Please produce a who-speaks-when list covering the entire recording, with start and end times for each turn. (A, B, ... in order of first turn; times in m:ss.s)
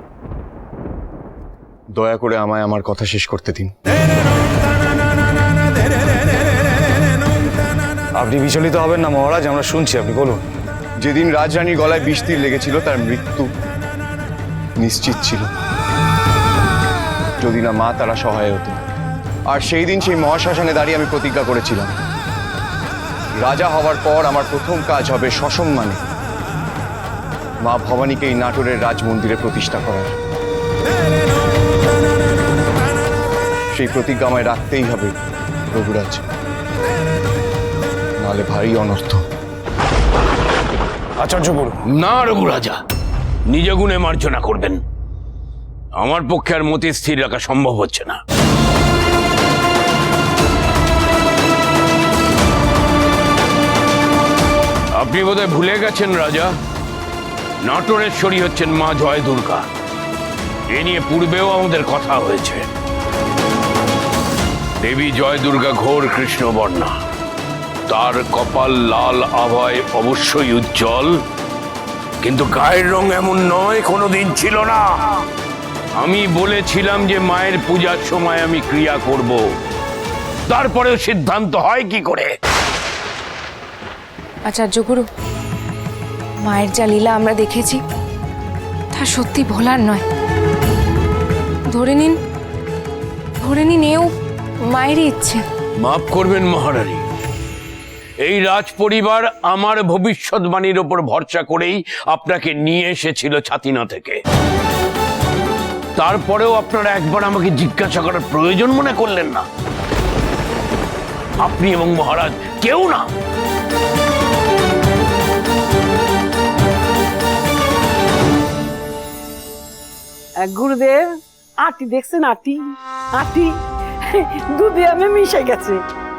0:02.0-0:03.7 A
0:08.2-0:10.4 B
0:11.0-0:13.5 A
0:14.8-0:15.5 A
0:17.4-0:18.8 A
0:19.5-0:21.9 A
0:23.4-0:26.0 A
0:27.6-0:30.1 A
0:33.8-0:35.1 A
0:35.7-0:36.2 A
0:38.2-0:39.2 A
0:41.2-0:41.7 B
0:41.9-0:42.8 C
0:43.5-0:44.8 C
0:46.0-0:48.2 C
0:55.0-0:56.5 C
0:57.6-0:59.6 C
1:00.7-1:02.7 C
1:04.8-1:07.0 C
1:07.9-1:11.2 C
1:12.2-1:14.9 C
1:16.0-1:19.4 C
1:20.5-1:22.3 C
1:24.5-1:25.1 D
1:26.4-1:27.8 D
1:28.9-1:30.0 D
1:31.7-1:32.2 D
1:33.4-1:34.1 D
1:34.7-1:35.4 D
1:35.8-1:37.0 C
1:38.2-1:44.2 C
1:46.0-1:49.5 C
1:51.4-1:53.1 C
2:00.4-2:03.6 E
2:04.1-2:05.8 E